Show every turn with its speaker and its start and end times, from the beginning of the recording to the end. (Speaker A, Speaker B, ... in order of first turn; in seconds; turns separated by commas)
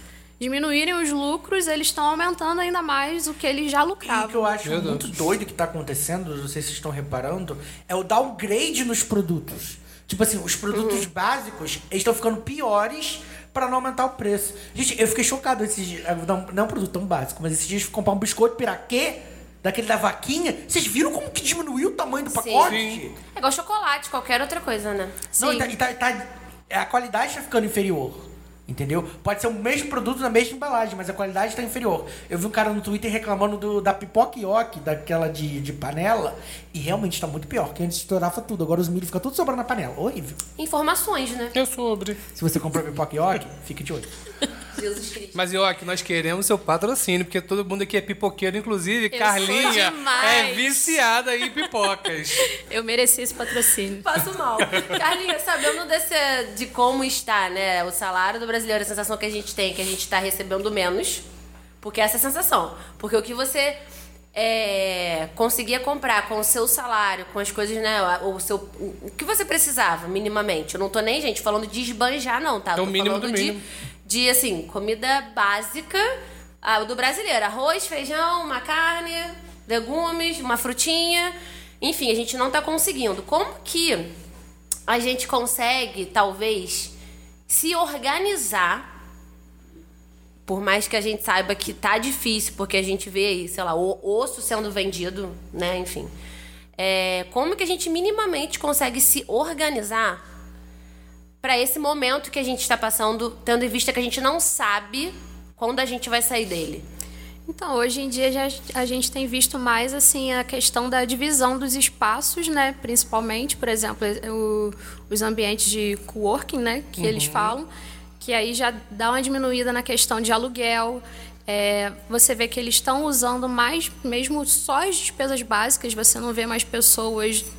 Speaker A: 0.4-4.5, Speaker B: 4.0-23.1, Speaker C: 4.6-5.1, Speaker D: 10.7-11.0, Speaker D: 22.3-22.8, Speaker C: 22.6-23.0, Speaker D: 23.4-25.2, Speaker A: 25.3-25.7, Speaker B: 25.4-40.4, Speaker D: 40.6-41.5, Speaker C: 41.5-42.2, Speaker B: 42.4-44.1, Speaker D: 44.7-45.5, Speaker C: 45.3-52.5, Speaker A: 49.1-51.0, Speaker D: 49.6-50.4, Speaker A: 52.4-54.1, Speaker D: 54.0-61.2, Speaker C: 54.6-55.0, Speaker D: 61.8-63.8, Speaker D: 64.3-76.1, Speaker C: 72.8-73.6, Speaker D: 76.6-84.1, Speaker D: 84.9-86.9, Speaker D: 87.5-88.8, Speaker D: 90.5-96.1, Speaker D: 96.8-100.2, Speaker D: 101.4-106.8, Speaker A: 107.5-117.7, Speaker C: 117.0-117.6, Speaker A: 118.2-127.5